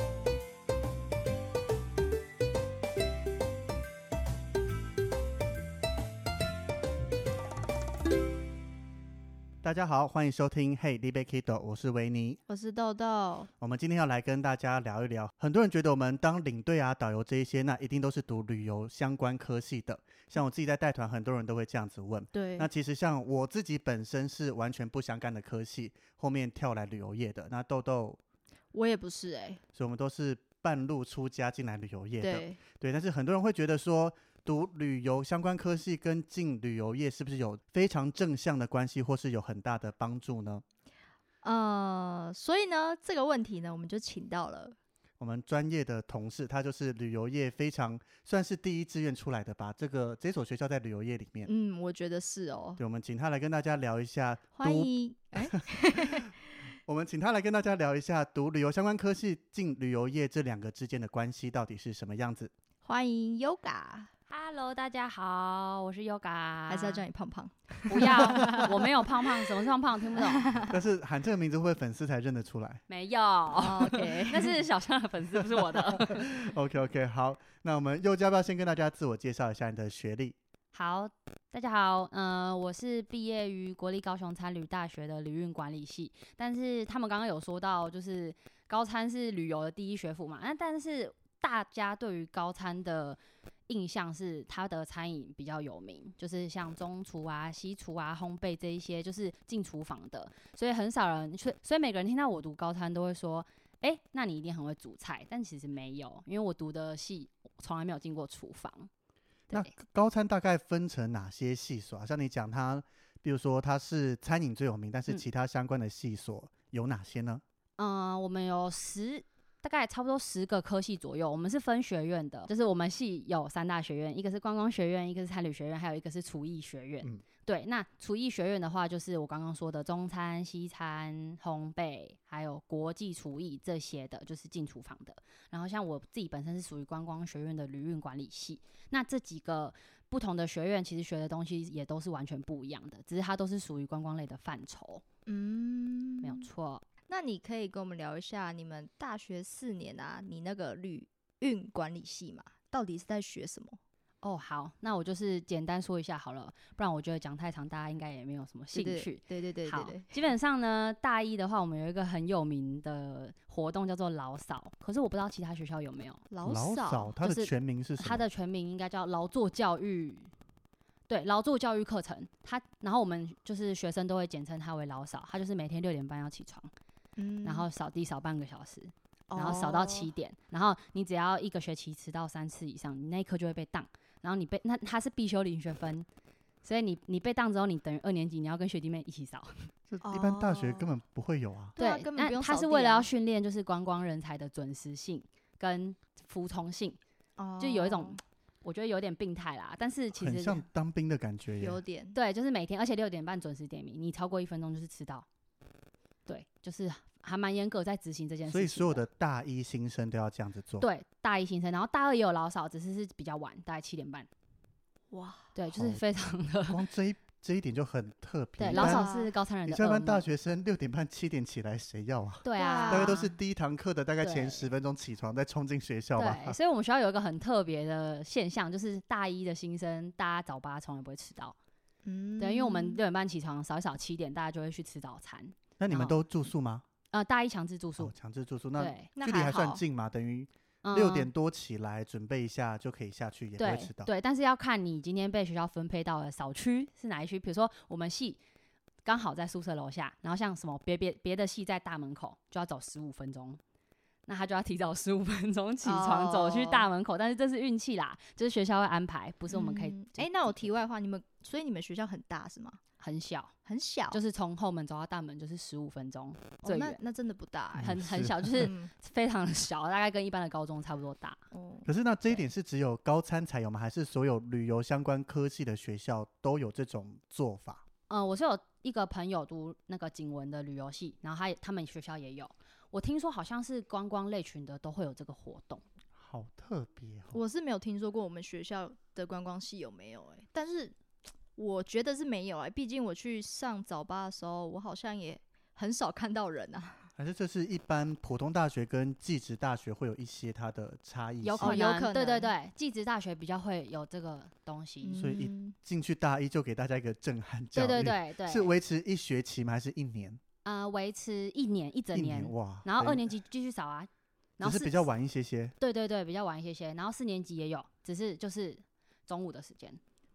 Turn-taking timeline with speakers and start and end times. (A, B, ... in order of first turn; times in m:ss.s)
0:09.6-0:12.4 A
0:12.5-0:13.5 B
0:13.6-0:28.2 A
0:22.3-0:22.7 B
0:28.7-0:29.6 B
0:29.7-0:40.6 A
0:32.2-0:32.6 B
0:41.4-0:44.8 B
0:45.2-0:51.5 A
0:51.5-0:52.8 B
0:52.8-0:56.3 A
0:54.6-0:56.3 B
0:56.9-1:02.5 A
1:02.8-1:04.1 B
1:04.3-1:07.0 C
1:06.7-1:09.4 B
1:07.9-1:10.5 C
1:10.1-1:10.7 B
1:10.6-1:12.8 A
1:12.9-1:16.4 C
1:13.6-1:14.6 B
1:15.6-1:20.4 A
1:20.7-1:48.9 C
1:49.5-1:57.4 A
1:57.8-2:25.0 C
2:25.3-2:26.5 B
2:26.2-2:26.8 C
2:27.1-2:33.8 B
2:34.2-2:46.2 C
2:38.7-2:40.3 B
2:46.3-2:47.1 B
2:46.4-2:48.2 A
2:47.2-2:50.3 C
2:51.1-2:56.7 C
2:57.2-2:57.7 B
2:57.4-3:06.1 C
2:59.3-3:00.1 B
3:06.6-3:09.7 C
3:09.9-3:11.8 A
3:10.0-3:10.9 B
3:11.8-3:13.1 B
3:11.8-3:17.0 C
3:17.4-3:18.2 B
3:17.6-3:20.6 C
3:20.2-3:21.8 A
3:21.6-3:22.2 B
3:22.1-3:25.3 C
3:26.3-3:29.0 C
3:28.5-3:30.9 A
3:30.8-3:34.3 C
3:35.1-3:35.5 B
3:35.6-3:36.8 C
3:35.7-3:36.0 A
3:36.7-3:39.1 A
3:38.6-3:40.2 C
3:38.7-3:39.3 B
3:39.7-3:46.6 A
3:42.4-3:43.3 C
3:42.6-3:43.3 B
3:44.2-3:44.7 C
3:46.2-3:51.6 C
3:52.0-3:53.0 B
3:52.4-3:56.2 C
3:55.8-3:56.8 A
3:57.1-3:58.1 C
3:58.0-4:04.1 A
3:58.8-3:59.1 C
3:59.2-3:59.8 B
4:00.8-4:01.3 C
4:03.6-4:08.4 C
4:09.0-4:13.6 C
4:14.3-4:20.7 C
4:15.8-4:16.9 B
4:19.5-4:22.8 B
4:23.0-4:23.5 C
4:23.7-4:24.2 B
4:24.1-4:27.0 C
4:26.6-4:28.0 B
4:27.7-4:28.7 A
4:27.8-4:31.4 C
4:28.6-4:28.9 B
4:31.5-4:31.9 B
4:31.9-4:37.8 A
4:38.1-4:45.8 C
4:46.2-4:47.4 A
4:47.3-4:51.0 B
4:51.6-4:57.1 B
4:57.2-5:01.8 A
5:01.4-5:05.2 C
5:01.6-5:02.5 B
5:05.0-5:05.8 B
5:05.2-5:10.4 A
5:07.7-5:08.7 C
5:10.6-5:15.0 C
5:12.1-5:13.3 A
5:14.6-5:15.7 A
5:15.8-5:20.0 C